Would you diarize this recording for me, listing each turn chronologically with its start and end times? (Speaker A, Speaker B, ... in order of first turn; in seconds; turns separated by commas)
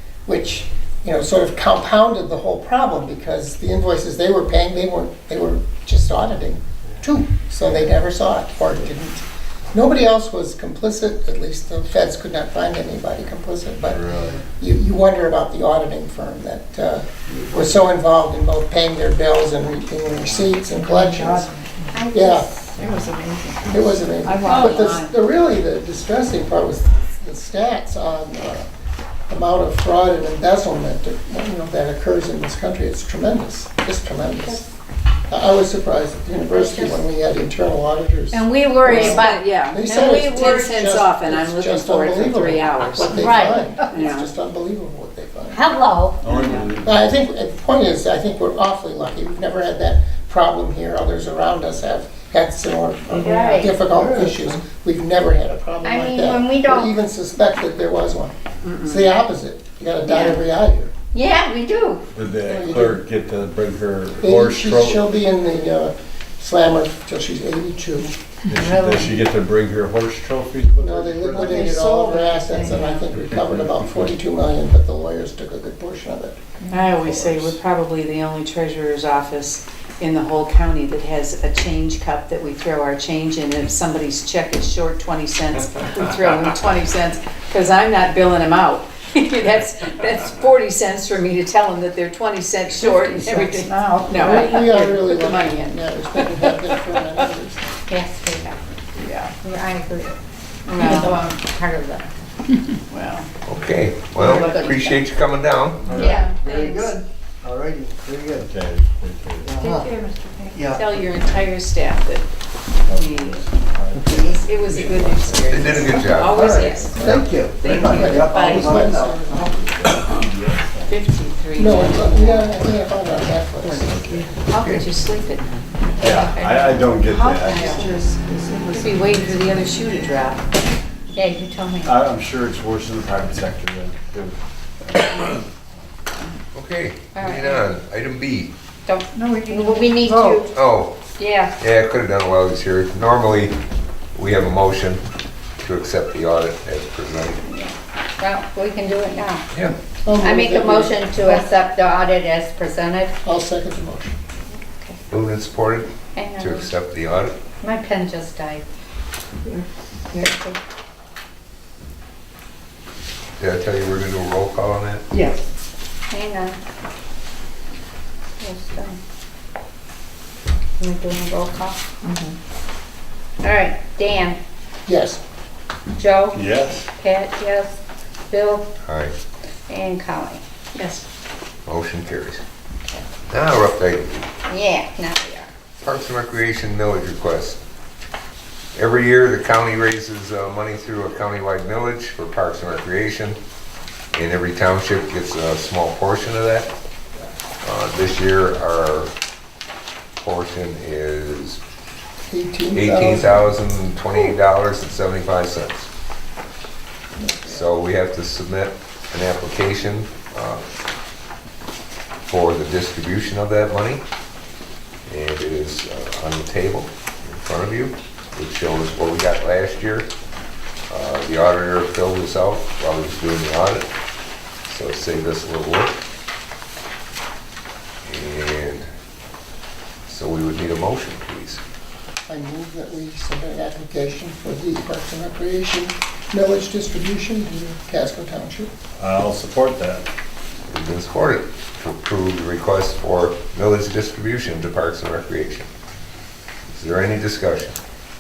Speaker A: 0.3-21.5, Speaker B: 7.6-8.0, Speaker C: 13.9-14.4, Speaker B: 17.3-17.8, Speaker B: 20.1-20.6, Speaker D: 20.7-25.1, Speaker E: 21.9-22.8, Speaker A: 22.1-22.5, Speaker A: 23.7-28.7, Speaker E: 24.5-24.8, Speaker A: 29.3-34.6, Speaker A: 35.3-45.6, Speaker E: 36.5-37.1, Speaker E: 38.3-40.9, Speaker F: 38.8-43.3, Speaker E: 43.2-43.7, Speaker F: 43.9-44.3, Speaker E: 45.5-46.2, Speaker C: 46.2-47.0, Speaker F: 46.3-46.7, Speaker A: 46.8-60.9, Speaker F: 53.1-53.7, Speaker E: 53.2-53.8, Speaker B: 53.8-54.6, Speaker E: 55.8-56.9, Speaker F: 58.6-59.1, Speaker E: 60.0-60.4, Speaker E: 61.1-62.0, Speaker C: 62.1-65.0, Speaker A: 62.5-63.0, Speaker A: 64.2-68.1, Speaker C: 68.5-71.7, Speaker E: 68.5-69.1, Speaker A: 70.8-76.4, Speaker D: 71.4-73.1, Speaker F: 76.7-97.2, Speaker C: 77.0-77.5, Speaker D: 92.8-94.6, Speaker A: 94.1-97.8, Speaker E: 97.9-98.6, Speaker F: 99.0-99.3, Speaker E: 99.4-100.2, Speaker F: 100.7-101.2, Speaker D: 100.8-101.2, Speaker E: 100.8-102.1, Speaker F: 102.9-103.3, Speaker G: 103.4-105.9, Speaker F: 104.2-105.0, Speaker B: 105.8-108.5, Speaker E: 106.0-106.3, Speaker F: 106.0-107.0, Speaker C: 108.4-109.8, Speaker B: 109.4-109.9, Speaker D: 109.6-110.7, Speaker B: 110.5-111.5, Speaker F: 110.7-112.3, Speaker F: 112.8-113.5, Speaker B: 112.9-115.2, Speaker F: 114.1-119.0, Speaker G: 115.5-116.8, Speaker A: 116.2-119.5, Speaker B: 117.0-120.2, Speaker C: 120.1-120.9, Speaker F: 120.8-122.7, Speaker A: 121.6-123.9, Speaker F: 123.7-126.2, Speaker C: 123.8-124.3, Speaker G: 124.6-124.9, Speaker C: 126.0-127.8, Speaker D: 126.0-130.0, Speaker F: 127.5-127.8, Speaker F: 128.7-130.5, Speaker E: 131.1-132.0, Speaker C: 131.8-135.2, Speaker G: 136.5-138.5, Speaker E: 137.1-137.7, Speaker E: 138.8-140.5, Speaker D: 139.1-140.4, Speaker G: 140.5-141.1, Speaker E: 141.2-141.6, Speaker G: 141.6-143.5, Speaker G: 144.2-145.0, Speaker G: 145.6-147.4, Speaker E: 147.4-149.4, Speaker A: 150.0-151.4, Speaker E: 150.1-153.1, Speaker A: 153.2-154.2, Speaker E: 154.5-155.0, Speaker G: 155.1-157.4, Speaker E: 156.2-156.7, Speaker E: 157.6-158.7, Speaker D: 159.4-160.3, Speaker E: 160.1-160.6, Speaker G: 163.4-165.0, Speaker D: 165.1-165.4, Speaker E: 166.1-166.6, Speaker E: 168.4-169.0, Speaker E: 170.8-171.8, Speaker D: 172.0-172.3, Speaker E: 173.4-174.4, Speaker A: 174.9-175.2, Speaker E: 175.9-177.8, Speaker C: 176.3-176.9, Speaker E: 178.3-178.7, Speaker G: 178.8-179.2, Speaker E: 179.7-180.4, Speaker F: 180.8-181.0, Speaker G: 181.7-182.4, Speaker G: 183.3-184.4, Speaker E: 184.5-185.5, Speaker G: 185.8-187.6, Speaker G: 188.8-193.4, Speaker G: 194.1-196.7, Speaker G: 197.6-199.1, Speaker G: 200.2-201.6, Speaker A: 202.3-203.4, Speaker G: 202.7-205.9, Speaker A: 207.2-207.7, Speaker G: 207.5-210.6, Speaker G: 212.3-214.0, Speaker G: 215.1-220.1, Speaker G: 220.9-223.9, Speaker G: 224.7-225.9, Speaker G: 228.1-228.8, Speaker G: 230.1-231.6, Speaker A: 232.3-238.7, Speaker C: 239.0-240.1, Speaker G: 240.7-245.7, Speaker G: 246.7-247.8